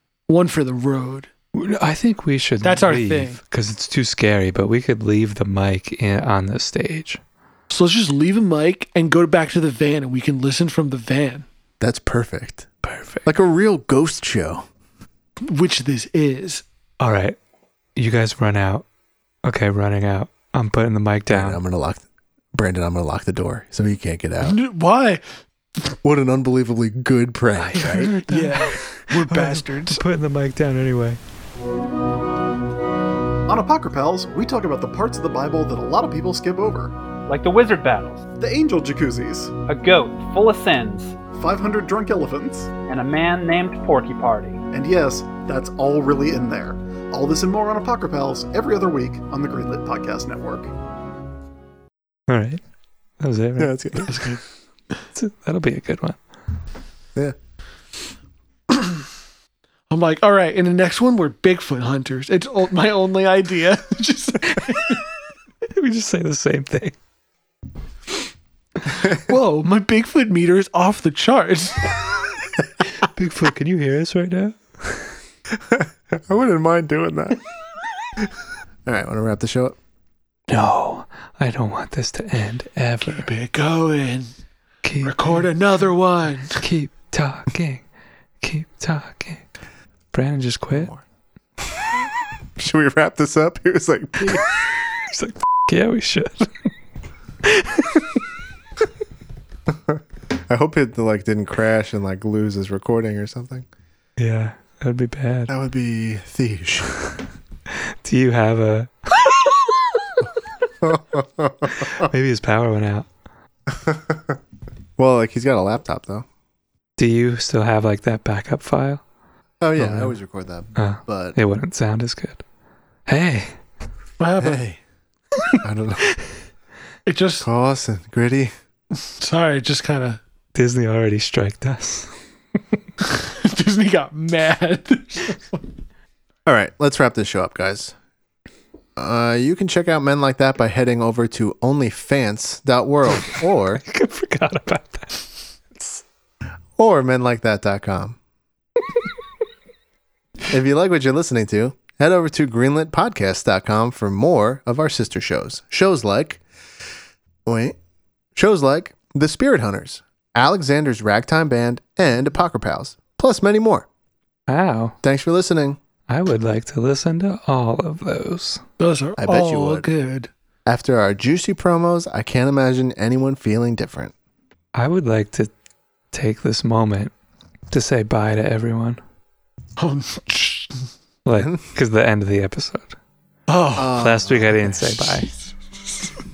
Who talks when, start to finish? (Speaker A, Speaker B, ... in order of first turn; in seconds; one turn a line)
Speaker A: 0.3-1.3
Speaker B: 1.5-7.2
Speaker A: 2.6-3.4
Speaker A: 7.7-11.4
Speaker C: 11.8-12.7
Speaker B: 12.8-13.2
Speaker C: 13.2-14.7
Speaker A: 15.4-16.6
Speaker B: 17.0-17.4
Speaker B: 17.9-18.8
Speaker B: 19.4-21.6
Speaker C: 21.3-24.6
Speaker A: 24.4-25.2
Speaker C: 26.0-28.1
Speaker B: 27.6-31.2
Speaker A: 28.2-30.0
Speaker D: 33.5-37.0
Speaker E: 37.3-38.2
Speaker D: 38.4-39.5
Speaker E: 39.7-41.2
Speaker D: 41.4-42.7
Speaker E: 42.9-44.6
Speaker D: 44.7-50.7
Speaker B: 52.3-52.6
Speaker B: 53.2-54.0
Speaker C: 53.6-54.4
Speaker A: 54.1-54.4
Speaker B: 55.1-56.2
Speaker A: 59.9-65.0
Speaker B: 65.7-67.0
Speaker A: 69.0-72.1
Speaker B: 73.0-75.1
Speaker C: 75.5-77.4
Speaker C: 78.8-79.8
Speaker B: 80.5-83.3
Speaker A: 83.0-84.3
Speaker B: 84.8-85.4
Speaker A: 85.0-86.6
Speaker B: 86.6-87.8
Speaker B: 88.4-89.4
Speaker B: 90.1-90.9
Speaker C: 90.7-91.0
Speaker C: 92.6-94.4
Speaker B: 95.1-96.5
Speaker B: 97.4-98.1
Speaker C: 99.7-103.7
Speaker B: 104.2-105.5
Speaker C: 105.5-106.9
Speaker B: 108.0-109.3
Speaker C: 110.8-111.9
Speaker B: 111.7-113.1
Speaker C: 113.7-114.4
Speaker C: 115.0-116.2
Speaker B: 117.0-119.0
Speaker C: 119.6-121.4
Speaker B: 119.8-120.2
Speaker B: 120.7-122.4
Speaker B: 123.1-123.6
Speaker A: 124.2-124.6
Speaker C: 124.4-124.8
Speaker C: 125.6-126.1
Speaker A: 127.0-127.5
Speaker C: 127.4-128.5
Speaker A: 129.0-130.2
Speaker B: 130.5-132.1
Speaker A: 133.0-135.6
Speaker C: 136.4-137.9
Speaker C: 139.0-143.8
Speaker B: 143.7-146.0
Speaker C: 146.8-148.2
Speaker C: 150.5-156.4
Speaker C: 157.4-157.8
Speaker C: 158.3-163.9
Speaker B: 164.5-165.0
Speaker C: 165.0-165.8
Speaker B: 166.1-168.6
Speaker A: 168.8-170.3
Speaker C: 169.2-169.9
Speaker C: 170.7-174.1
Speaker B: 174.7-175.5
Speaker B: 176.1-177.1
Speaker B: 177.7-179.0
Speaker A: 179.8-180.7
Speaker B: 181.2-182.9
Speaker A: 183.5-184.0
Speaker C: 183.7-184.7
Speaker B: 183.9-185.3
Speaker A: 184.8-185.3